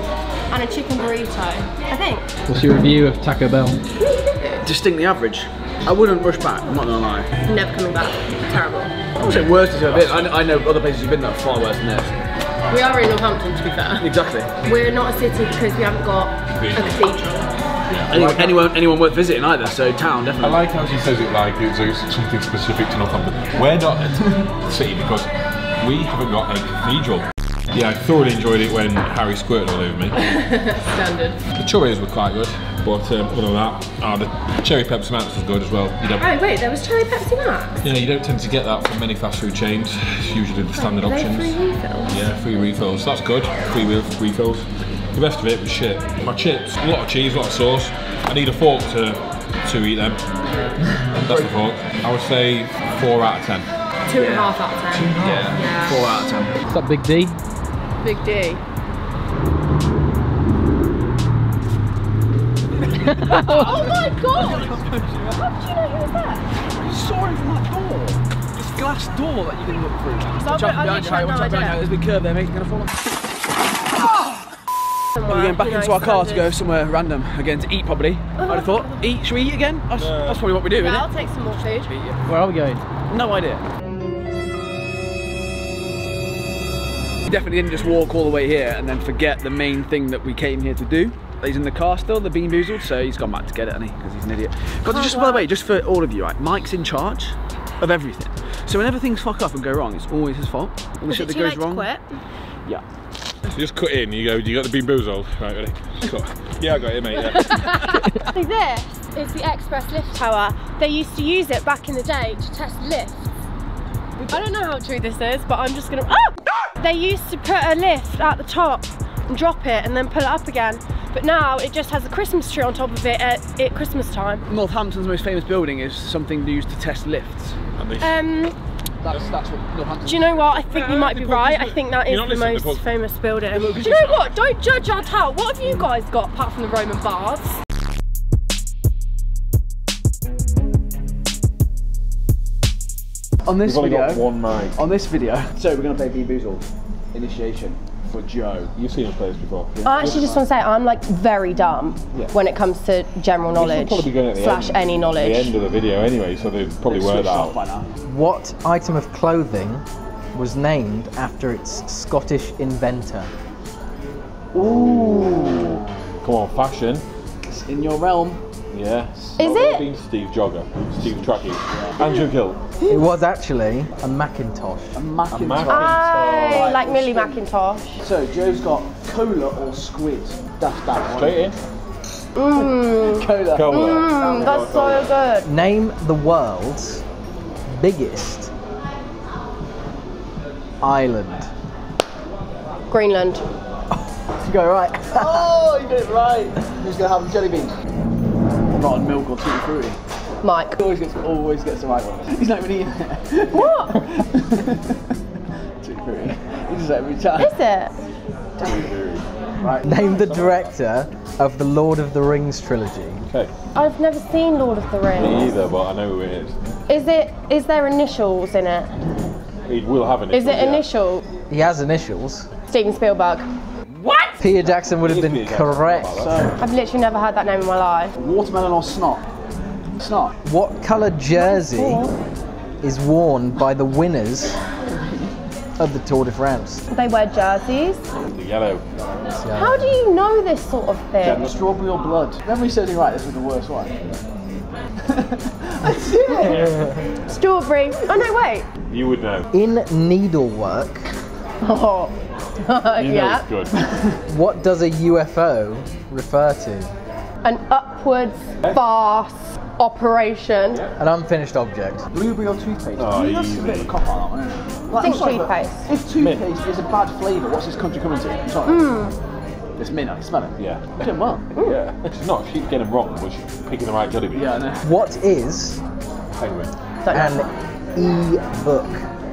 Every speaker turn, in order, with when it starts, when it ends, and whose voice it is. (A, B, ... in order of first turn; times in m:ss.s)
0:00.5-0:02.3 A
0:02.5-0:03.8 B
0:04.0-0:04.7 A
0:04.6-0:07.3 C
0:07.5-0:09.0 A
0:09.2-0:12.2 C
0:09.2-0:10.5 D
0:12.7-0:14.1 A
0:14.0-0:14.5 C
0:14.6-0:17.5 A
0:16.5-0:17.2 D
0:17.9-0:18.5 D
0:18.1-0:20.7 C
0:20.4-0:30.2 D
0:30.2-0:31.4 A
0:31.5-0:36.3 D
0:36.2-0:37.8 A
0:37.8-0:41.6 D
0:40.7-0:42.2 A
0:42.1-0:50.2 D
0:50.9-0:51.5 C
0:51.2-0:53.7 D
0:54.1-0:56.0 A
0:54.1-0:56.6 C
0:56.7-0:57.4 B
0:58.0-0:58.6 A
1:02.8-1:05.3 C
1:03.1-1:03.8 B
1:03.2-1:06.5 A
1:06.8-1:13.0 C
1:10.3-1:11.8 A
1:15.2-1:16.5 A
1:15.2-1:21.1 C
1:18.4-1:19.0 A
1:20.0-1:20.5 D
1:20.7-1:21.9 A
1:21.9-1:22.2 C
1:22.2-1:22.8 B
1:23.1-1:23.6 C
1:27.3-1:41.9 C
1:34.8-1:35.5 A
1:41.1-1:42.2 A
1:43.5-1:47.8 D
1:47.2-1:53.2 A
1:54.2-1:54.4 C
1:54.3-2:04.4 A
2:04.5-2:07.6 C
2:07.8-2:08.2 D
2:08.0-2:08.6 A
2:09.0-2:10.7 C
2:09.1-2:09.4 D
2:10.1-2:17.6 A
2:10.7-2:12.8 D
2:13.5-2:14.3 C
2:23.4-2:28.7 C
2:23.6-2:24.8 D
2:28.8-2:29.8 D
2:29.7-2:30.5 C
2:29.8-2:35.5 A
2:33.5-2:37.6 D
2:36.8-2:37.9 C
2:38.0-2:43.3 E
2:44.5-2:45.9 C
2:44.6-2:47.0 D
2:47.5-2:48.4 C
2:48.7-2:52.6 D
2:49.4-2:49.9 A
2:51.7-2:52.0 C
2:52.9-2:55.0 E
2:55.0-2:57.4 C
2:55.3-2:56.8 D
2:55.7-2:58.0 A
2:58.0-3:01.5 C
3:01.1-3:01.6 D
3:02.4-3:05.5 A
3:02.6-3:03.8 C
3:03.5-3:05.2 D
3:05.4-3:07.0 E
3:07.8-3:08.5 E
3:10.8-3:11.5 E
3:12.9-3:13.4 A
3:14.4-3:15.5 E
3:15.1-3:17.8 C
3:18.7-3:20.0 C
3:20.4-3:20.8 A
3:20.8-3:25.0 C
3:23.5-3:24.0 A
3:25.8-3:27.5 C
3:27.4-3:27.9 A
3:28.6-3:29.3 D
3:29.6-3:29.9 C
3:29.8-3:33.3 E
3:29.8-3:30.7 D
3:33.3-3:33.5 D
3:33.7-3:35.6 A
3:35.1-3:36.7 D
3:36.9-3:38.9 A
3:39.7-3:40.8 D
3:40.3-3:41.2 A
3:41.5-3:42.5 E
3:42.7-3:43.5 A
3:44.4-3:46.4 E
3:44.4-3:46.5 D
3:46.2-3:46.6 C
3:46.6-3:48.2 A
3:48.2-3:49.2 C
3:50.0-3:50.4 C
3:50.4-3:52.1 E
3:51.4-3:52.1 A
3:52.8-3:54.6 E
3:54.9-3:55.3 C
3:55.8-3:56.8 E
3:56.9-3:58.0 A
3:58.2-3:58.8 D
3:59.4-4:00.0 E
3:59.5-4:01.5 A
4:01.2-4:04.2 C
4:05.0-4:07.1 C
4:06.3-4:06.6 A
4:07.3-4:08.7 A
4:08.9-4:09.5 D
4:09.5-4:11.1 E
4:11.6-4:13.5 A
4:13.0-4:13.7 D
4:13.8-4:14.2 C
4:14.3-4:16.9 E
4:17.4-4:20.9 A
4:21.0-4:22.1 E
4:22.1-4:29.0 C
4:23.0-4:24.0 D
4:24.9-4:25.9 A
4:26.2-4:26.5 D
4:28.7-4:29.2 A
4:29.8-4:31.4 C
4:30.6-4:34.6 D
4:34.3-4:34.9 C
4:34.8-4:35.8 E
4:36.4-4:36.7 D
4:37.0-4:37.5 A
4:37.1-4:39.0 E